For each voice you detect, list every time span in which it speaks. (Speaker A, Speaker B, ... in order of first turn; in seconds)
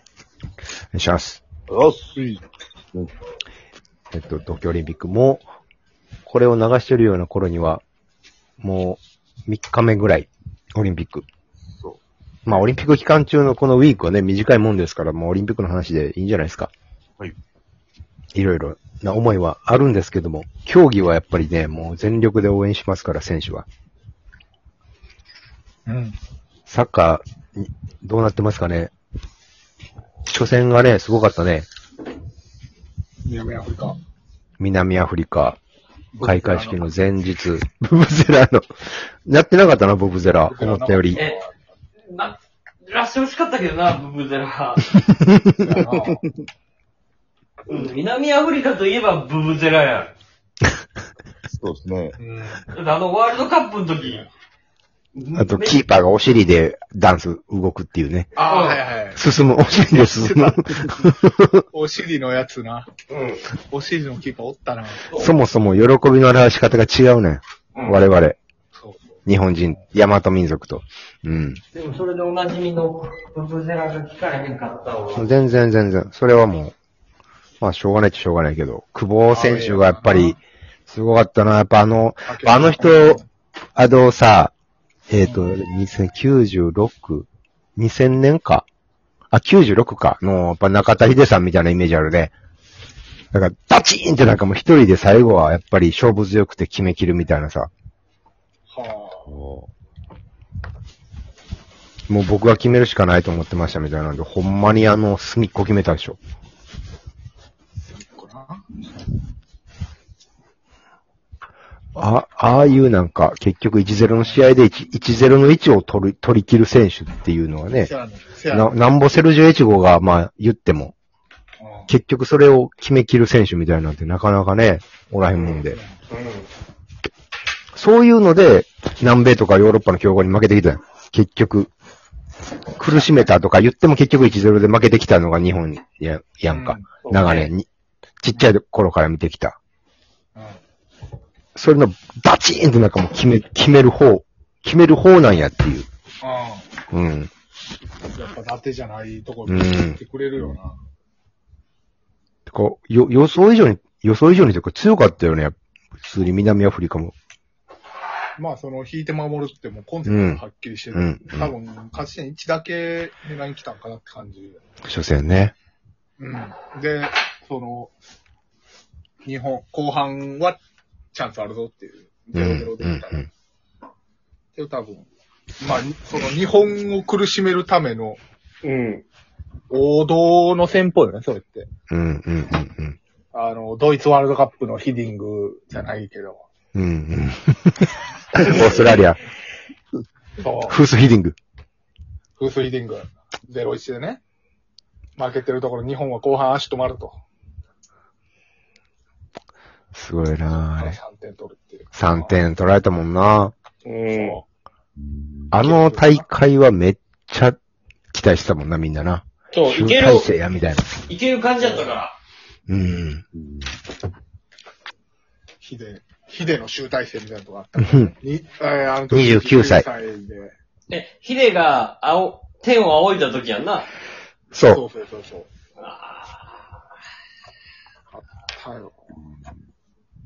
Speaker A: 0.9-1.4, 4.1-5.4, 6.3-7.8, 8.6-11.2, 12.5-16.7, 18.4-23.7, 26.7-28.9, 30.3-31.7, 34.6-35.6, 36.2-38.7, 39.3-41.2, 45.0-45.5, 55.4-58.4, 59.1-61.6, 65.1-68.4, 69.3-71.6, 75.1-76.7, 77.6-83.2, 83.8-84.5, 85.1-88.7, 89.3-92.3, 93.3-97.7, 102.1-106.2, 112.0-117.9, 118.5-120.9, 121.9-125.8, 127.8-131.7, 132.8-137.7, 138.2-139.6, 141.6-145.9, 146.9-147.3, 149.5-150.0, 152.5-157.1, 160.1-160.4, 160.9-161.5, 164.8-165.5, 172.3-173.3, 181.9-183.0, 186.8-189.2, 190.7-191.4, 199.9-201.0, 201.9-203.5, 205.5-207.6, 208.1-211.1, 212.7-213.2, 217.8-218.1, 219.1-219.9, 224.5-224.8
Speaker B: 1.7-2.4, 11.8-12.7, 45.8-46.3, 51.5-52.2, 99.3-99.7, 205.0-205.5, 213.3-213.8
Speaker C: 25.9-26.2, 33.3-34.0, 36.1-36.9, 40.5-41.7, 45.6-46.2, 52.2-52.6, 58.4-60.6, 61.7-62.9, 63.7-65.1, 68.8-69.1, 79.3-80.4, 82.3-83.3, 85.2-85.5, 98.7-99.3, 107.8-108.6, 117.8-118.8, 121.6-121.9, 125.4-126.0, 136.5-136.9, 140.3-140.6, 146.2-146.7, 148.1-150.8, 158.4-164.6, 166.2-167.9, 169.2-170.6, 171.1-173.3, 174.6-175.1, 175.6-178.2, 179.7-181.7, 183.3-186.4, 190.4-190.8, 192.4-194.2, 195.2-197.2, 200.8-202.4, 204.1-204.4, 205.6-206.2, 215.6-220.5, 224.7-225.5, 228.1-229.0
Speaker D: 42.1-44.9, 47.7-50.1, 52.7-54.3, 55.2-55.8, 58.4-58.8, 63.1-63.5, 71.7-75.3, 126.1-126.5, 137.0-137.5, 178.6-179.0, 188.5-189.0, 203.8-204.4, 209.5-210.3, 211.1-212.2, 220.9-223.9, 225.8-226.5